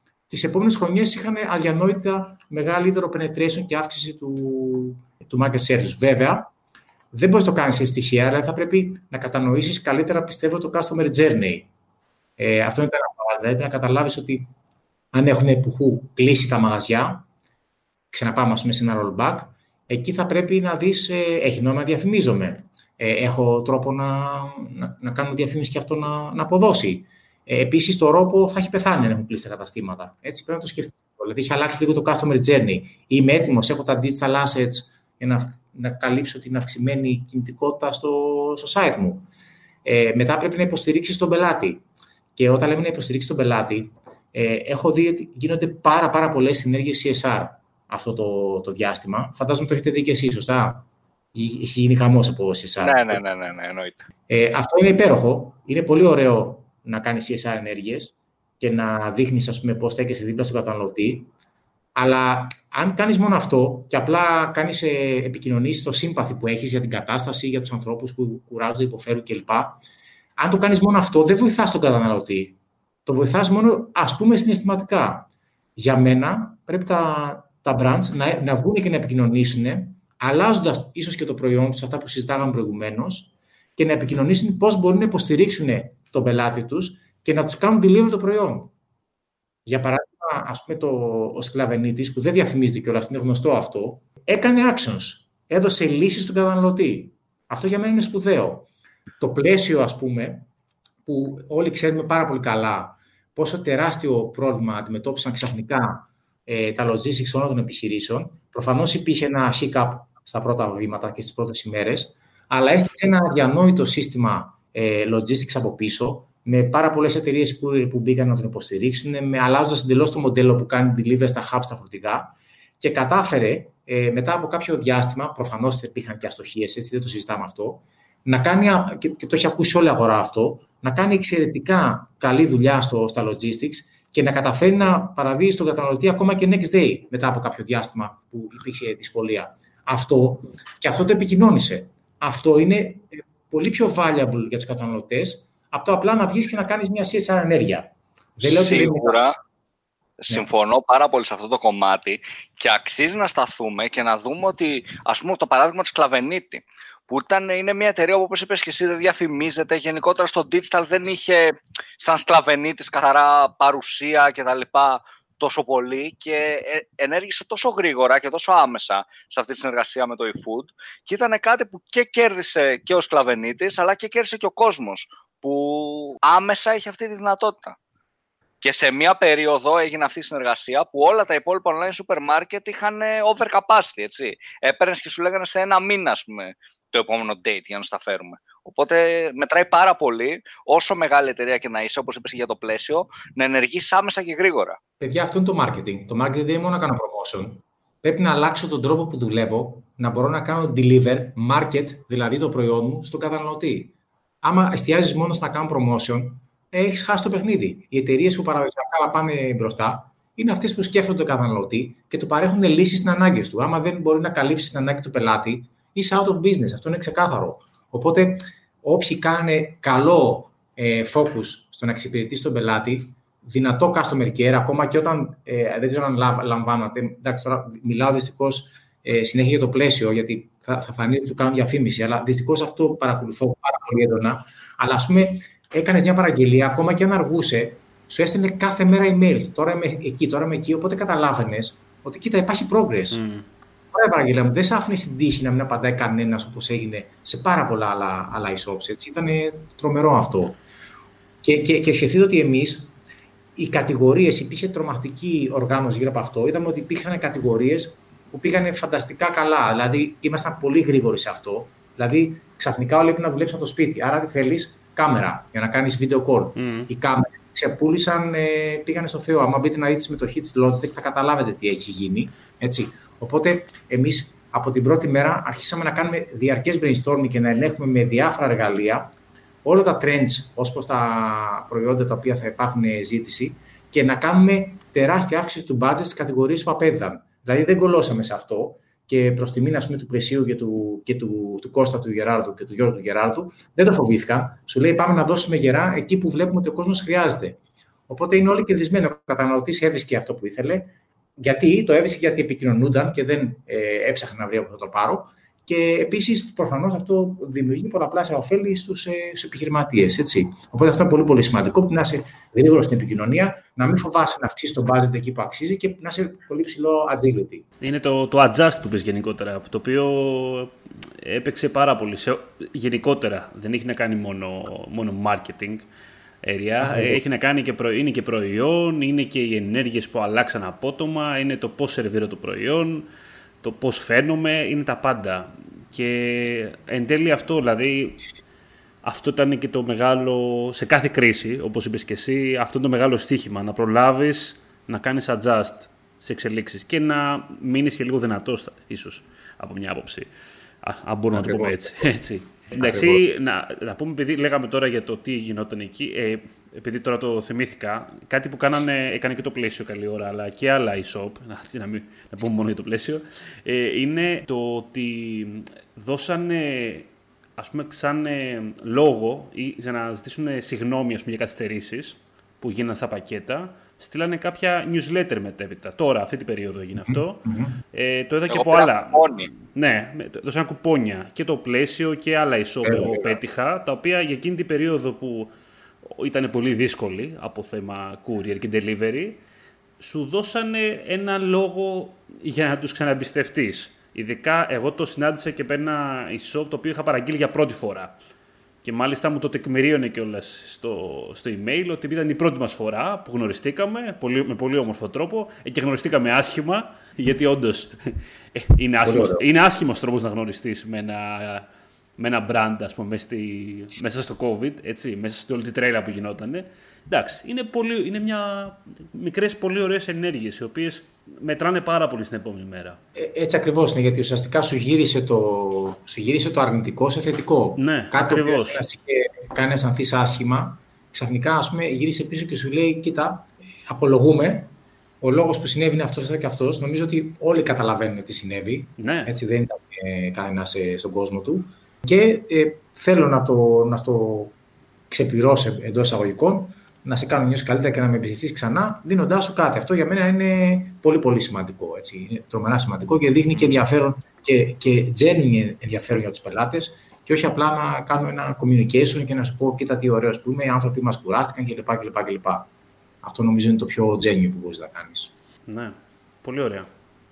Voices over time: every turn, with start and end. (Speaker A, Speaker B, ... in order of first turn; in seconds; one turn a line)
Speaker A: 0.3-6.5
Speaker A: 7.1-11.7
Speaker A: 12.4-14.5
Speaker A: 15.1-17.2
Speaker A: 18.1-39.3
Speaker A: 39.8-41.8
Speaker A: 42.4-53.2
Speaker B: 52.8-54.1
Speaker A: 54.3-61.3
Speaker A: 62.0-69.8
Speaker A: 70.4-88.7
Speaker A: 89.7-98.7
Speaker A: 99.2-100.5
Speaker A: 101.0-149.2
Speaker B: 148.4-149.3
Speaker B: 150.2-177.8
Speaker B: 178.6-194.8
Speaker A: 195.0-243.2
Speaker C: 243.1-243.5
Speaker A: 243.9-250.6
Speaker A: 251.4-252.9
Speaker A: 253.6-279.1
Speaker C: 266.6-266.9
Speaker A: 279.6-317.6
Speaker C: 317.8-325.9
Speaker C: 326.4-333.1
Speaker A: 326.8-327.2
Speaker C: 333.6-338.2
Speaker C: 339.0-385.5
Speaker A: 351.3-352.1
Speaker A: 352.7-353.2
Speaker A: 377.0-377.8
Speaker B: 378.5-379.5
Speaker A: 382.8-383.4
Speaker C: 386.0-389.4
Speaker C: 390.0-398.1
Speaker C: 398.8-423.0
Speaker A: 409.0-409.4
Speaker A: 423.1-444.5
Speaker C: 427.8-428.8
Speaker C: 439.0-439.3
Speaker A: 445.1-462.7
Speaker A: 463.2-465.3
Speaker C: 465.7-466.9